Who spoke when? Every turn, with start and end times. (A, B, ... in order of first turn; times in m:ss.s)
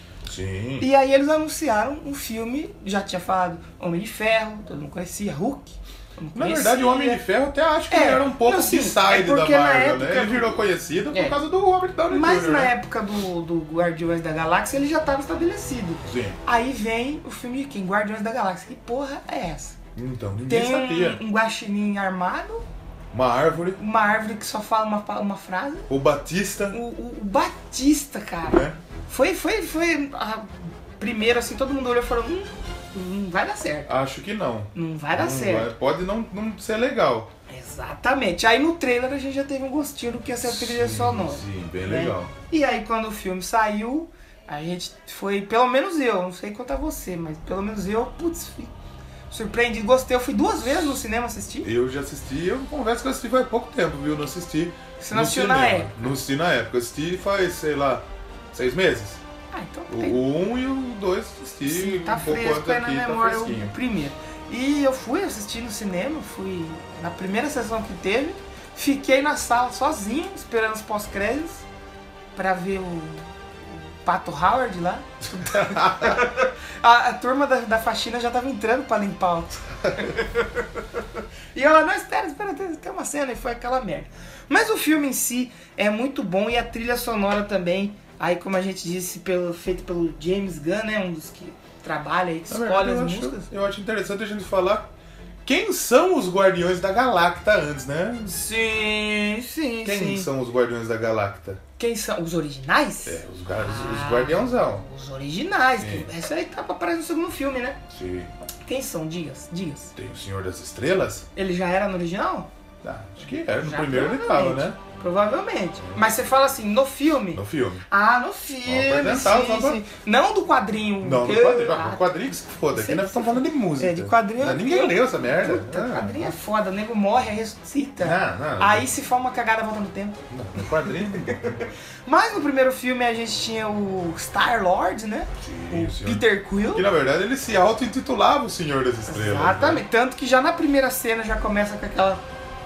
0:00.2-0:00.9 A
0:00.8-0:07.2 B
0:06.3-0:12.7 A
0:07.9-0:11.4 B
0:12.1-0:19.8 B
0:16.0-0:16.4 A
0:19.9-0:21.2 A
0:20.4-0:22.6 B
0:23.1-0:23.8 A
0:23.8-0:25.9 B
0:25.9-0:26.8 A
0:26.7-0:33.9 B
0:28.4-0:28.8 A
0:33.9-0:37.3 A
0:34.7-0:35.7 B
0:37.5-0:48.7 B
0:40.4-0:42.3 A
0:49.3-0:51.7 B
0:51.6-0:59.2 A
0:55.0-0:56.1 B
0:59.5-1:00.2 B
0:59.9-1:03.7 A
1:01.6-1:11.6 B
1:12.3-1:20.1 B
1:15.2-1:16.2 A
1:21.5-1:33.5 B
1:32.5-1:34.9 A
1:35.4-1:38.4 A
1:38.3-1:40.3 B
1:39.8-1:41.6 A
1:41.8-1:47.8 B
1:43.0-1:44.8 A
1:45.8-1:46.1 A
1:47.9-1:48.3 A
1:48.6-1:49.9 B
1:50.0-1:51.2 A
1:51.3-1:52.5 B
1:52.8-1:54.8 A
1:53.6-2:02.1 B
1:55.8-1:56.1 A
1:57.3-1:57.8 A
1:58.6-1:59.8 A
2:01.0-2:06.4 A
2:02.7-2:11.5 B
2:08.0-2:08.9 A
2:10.3-2:11.7 A
2:12.0-2:16.8 B
2:15.4-2:19.8 A
2:19.1-2:22.2 B